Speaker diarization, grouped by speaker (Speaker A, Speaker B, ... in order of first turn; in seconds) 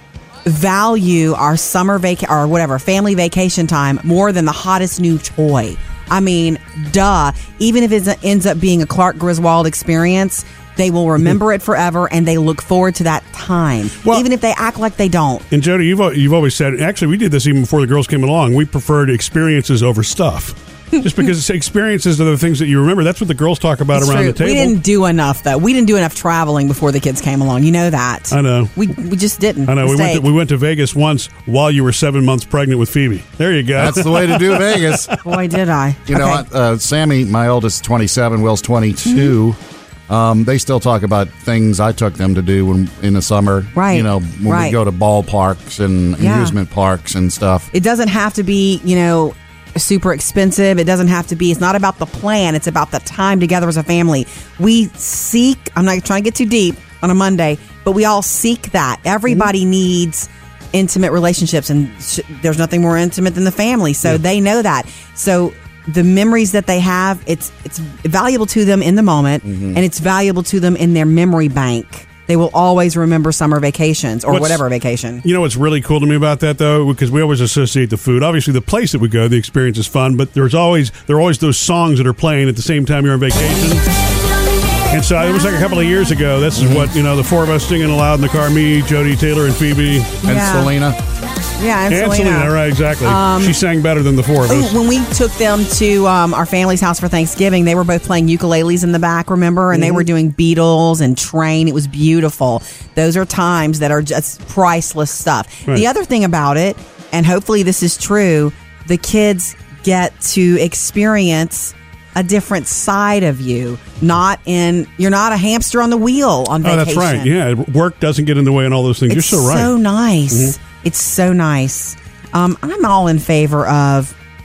Speaker A: 0.5-15.4, 23.9-30.2, 35.2-36.4, 43.8-44.8, 46.2-46.5, 47.7-75.2, 90.2-90.7, 91.6-93.6, 94.5-117.3, 119.1-124.1
Speaker B: 15.5-24.8, 28.3-28.8, 29.7-35.2, 74.3-74.6, 75.2-83.9, 84.9-90.2, 91.9-94.8, 116.6-119.7
Speaker C: 33.8-35.1, 36.1-47.7, 69.5-69.8, 86.5-86.9, 90.2-91.0